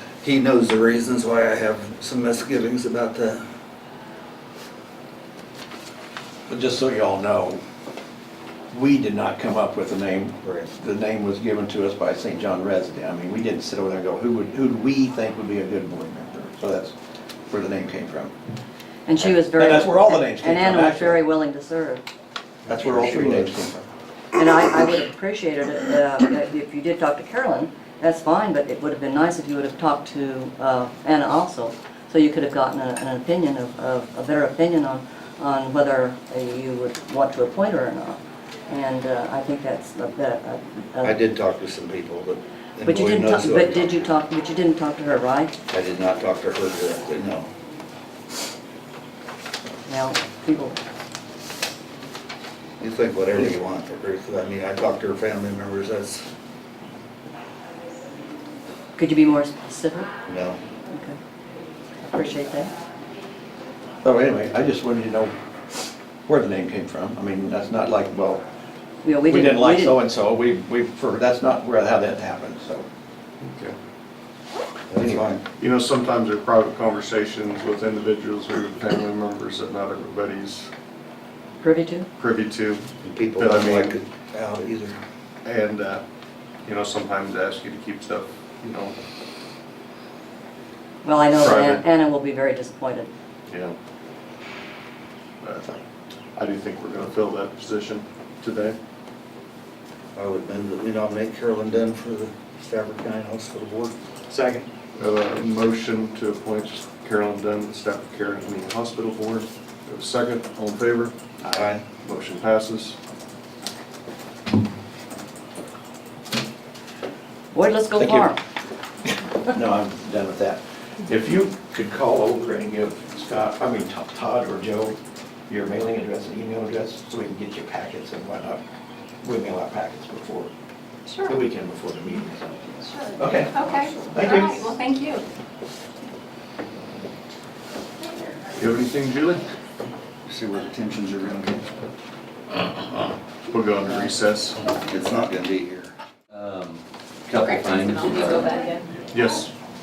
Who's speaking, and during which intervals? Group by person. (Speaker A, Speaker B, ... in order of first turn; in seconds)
Speaker A: 0.2-3.5, 10.4-10.7, 22.8-23.7, 41.0-44.1, 45.7-47.5, 52.8-56.2, 60.2-60.6, 74.9-75.4, 83.0-85.0, 100.1-103.9, 111.5-111.8, 140.3-141.6, 144.8-145.9
Speaker B: 6.5-7.6, 8.7-16.9, 17.5-18.3, 19.2-21.2, 22.7-23.8, 64.0-65.3, 66.3-68.4, 69.3-72.9, 74.9-75.3, 118.0-118.3, 119.4-125.0, 125.5-128.6, 129.2-130.5, 131.2-134.8
Speaker C: 19.1-22.0, 24.4-41.2, 42.8-45.5, 49.9-50.8, 59.0-60.1, 60.9-61.2, 62.0-62.7, 69.0-70.0, 81.6-82.1, 91.0-93.1, 117.5-118.4
Speaker D: 73.4-73.7, 75.6-80.7, 82.2-84.0, 85.4-86.0, 86.7-88.9, 91.4-91.8, 93.5-93.7, 95.4-95.8, 96.4-98.8, 104.4-113.0, 138.6-139.4, 143.5-144.6, 149.1-149.5
Speaker E: 131.1-131.3, 132.9-135.2, 147.3-148.9
Speaker F: 146.3-148.6